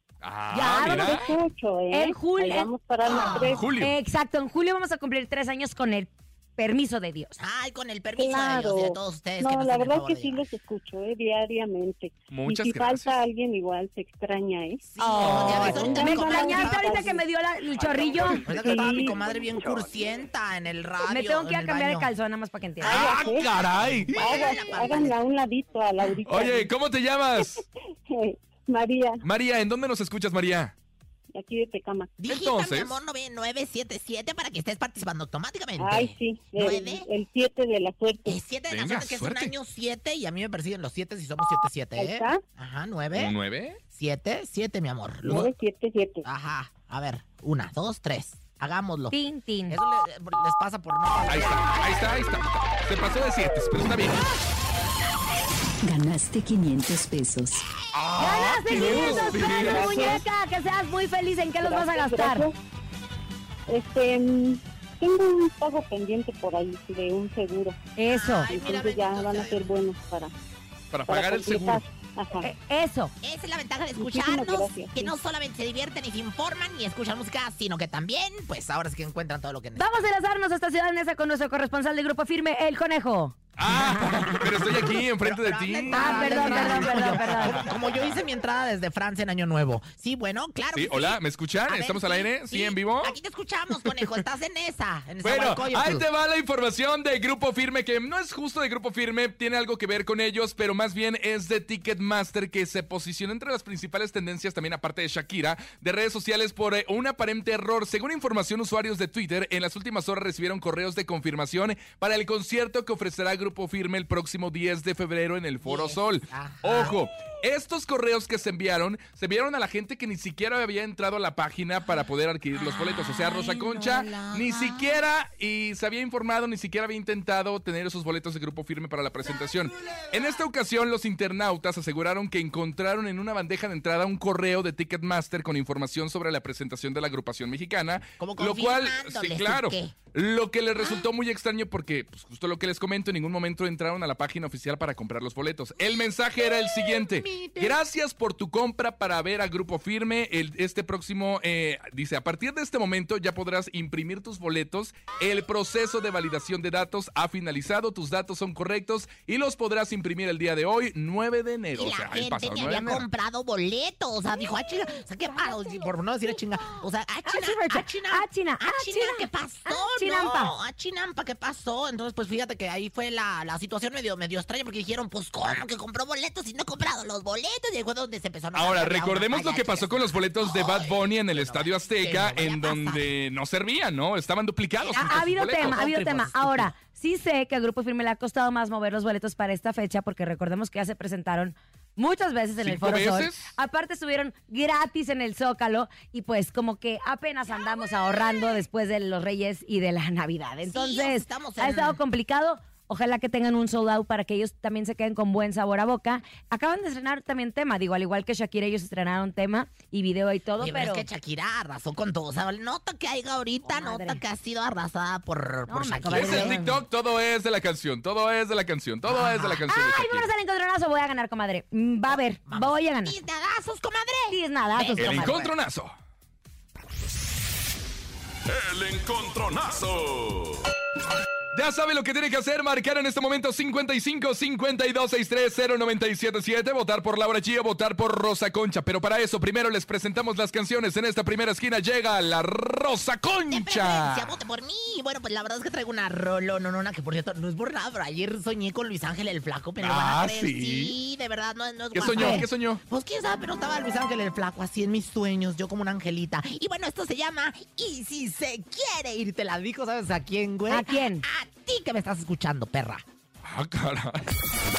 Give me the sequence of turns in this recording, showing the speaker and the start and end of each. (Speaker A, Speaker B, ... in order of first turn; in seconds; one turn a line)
Speaker A: 0.2-1.3
Speaker B: 0.5-1.3
Speaker C: 0.9-3.7
Speaker B: 1.9-2.7
Speaker B: 3.3-7.4
Speaker A: 3.6-4.0
Speaker D: 7.4-10.5
Speaker C: 8.2-17.3
Speaker A: 12.3-13.2
Speaker D: 14.9-17.1
Speaker B: 15.0-18.5
Speaker A: 15.2-15.8
Speaker D: 17.9-22.1
Speaker C: 18.5-19.2
Speaker B: 21.1-23.1
Speaker A: 22.8-24.3
Speaker C: 22.8-23.5
Speaker D: 22.9-25.2
Speaker C: 24.1-26.7
Speaker A: 26.2-27.6
Speaker C: 28.1-29.2
Speaker A: 29.2-30.7
Speaker C: 31.3-32.1
Speaker D: 32.2-37.1
Speaker A: 32.3-33.0
Speaker C: 35.8-38.4
Speaker D: 38.3-43.4
Speaker A: 38.7-39.5
Speaker C: 42.0-42.4
Speaker A: 43.1-43.8
Speaker D: 43.9-45.5
Speaker C: 45.2-46.2
Speaker D: 46.2-49.2
Speaker B: 49.1-49.8
Speaker D: 49.7-52.0
Speaker A: 51.3-54.3
Speaker A: 57.9-60.2
Speaker B: 58.2-62.5
Speaker C: 59.0-60.2
Speaker C: 61.6-62.5
Speaker C: 63.7-67.8
Speaker B: 68.0-68.5
Speaker D: 68.1-69.7
Speaker C: 68.5-70.3
Speaker A: 70.9-71.8
Speaker C: 71.1-72.5
Speaker B: 72.4-73.1
Speaker D: 73.2-79.9
Speaker C: 74.0-75.1
Speaker B: 79.8-83.4
Speaker A: 83.6-88.1
Speaker D: 84.2-96.0
Speaker B: 85.9-87.7
Speaker A: 90.7-93.2
Speaker A: 95.2-163.1
Speaker D: 115.7-117.0
Speaker D: 122.5-125.0
Speaker D: 138.2-139.9
Speaker D: 146.6-147.8
Speaker D: 161.8-183.1
Speaker B: 167.3-170.5
Speaker A: 178.5-186.7
Speaker D: 184.8-185.2
Speaker B: 184.9-211.1
Speaker A: 192.6-193.5
Speaker D: 200.7-202.0
Speaker D: 210.6-216.6
Speaker B: 213.7-214.2
Speaker B: 215.7-216.8
Speaker A: 216.1-220.3
Speaker D: 219.1-219.7
Speaker B: 219.7-223.2
Speaker D: 222.1-225.5
Speaker B: 224.3-225.5
Speaker A: 225.0-225.9
Speaker E: 228.5-230.7
Speaker A: 231.5-244.3
Speaker D: 243.5-263.0
Speaker A: 249.8-250.9
Speaker A: 251.9-252.8
Speaker B: 252.1-252.4
Speaker B: 260.7-261.2
Speaker A: 263.4-264.3